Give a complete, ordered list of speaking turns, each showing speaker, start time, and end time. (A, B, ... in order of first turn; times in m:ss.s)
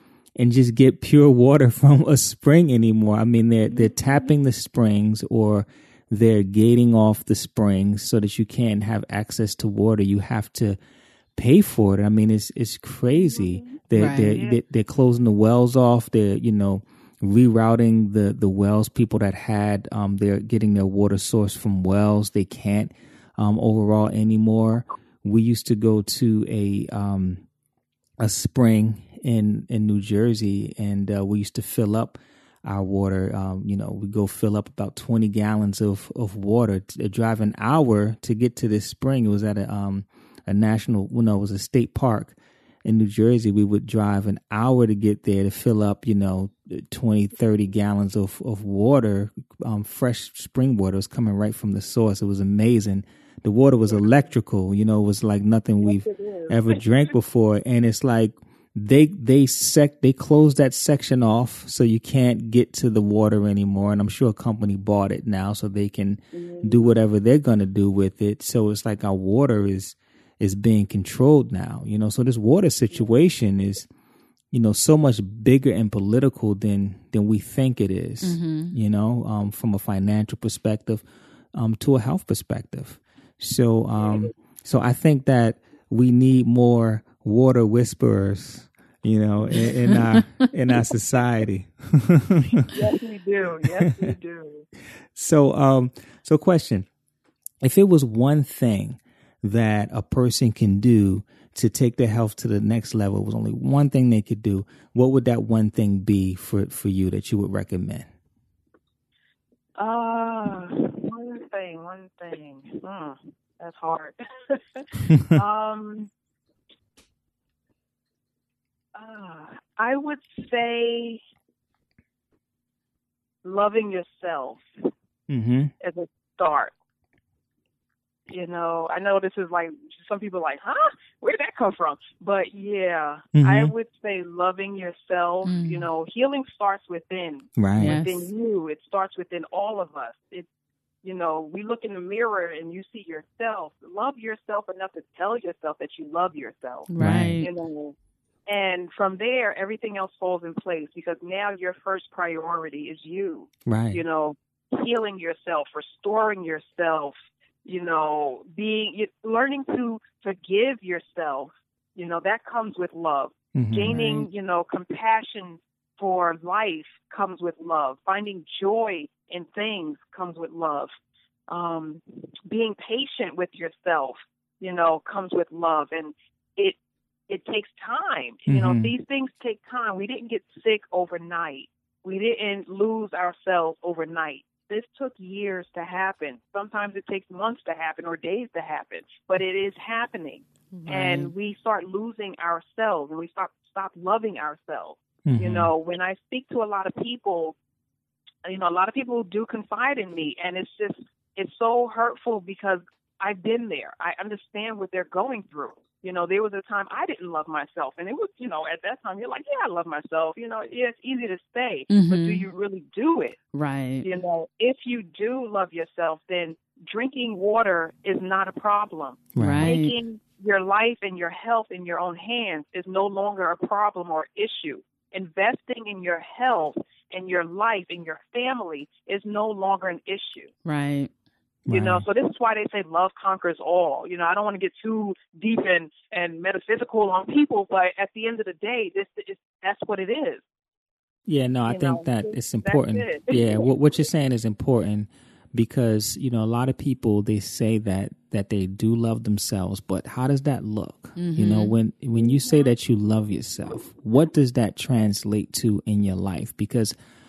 0:00.4-0:10.8 A
0:03.7-0:04.3 B
0:11.4-0:27.4 A
0:13.1-0:14.6 B
0:13.9-0:14.4 C
0:28.2-1:13.9 A
0:55.8-0:56.8 B
1:06.3-1:07.0 B
1:14.5-1:32.7 A
1:18.2-1:18.7 C
1:24.0-1:24.3 B
1:29.6-1:30.5 C
1:32.7-1:34.7 B
1:33.8-1:34.1 A
1:35.1-1:36.9 A
1:37.6-1:48.1 A
1:49.8-1:56.1 B
1:58.9-2:01.2 B
2:03.4-2:04.9 B
2:05.3-2:05.7 A
2:05.8-2:06.7 B
2:08.3-2:20.5 B
2:13.3-2:13.7 A
2:15.4-2:15.8 C
2:17.6-2:18.0 A
2:17.8-2:18.3 C
2:21.0-2:27.9 B
2:26.9-2:27.5 C
2:27.0-2:27.4 A
2:28.5-2:37.1 B
2:33.6-2:34.0 A
2:37.6-2:50.9 B
2:43.5-2:44.0 A
2:43.8-2:44.3 C
2:51.5-2:56.8 B
2:57.3-3:17.6 B
2:58.5-2:58.9 A
3:10.7-3:11.3 C
3:15.2-3:15.7 A
3:18.4-3:33.4 B
3:31.9-3:32.5 C
3:33.5-3:34.1 C
3:34.0-3:50.5 B
3:39.4-3:39.7 A
3:39.4-3:40.0 C
3:50.6-3:51.1 C
3:51.7-3:52.0 A
3:51.7-4:00.4 B
4:01.3-4:16.9 A
4:01.7-4:03.7 B
4:11.2-4:11.8 C
4:12.2-4:12.5 B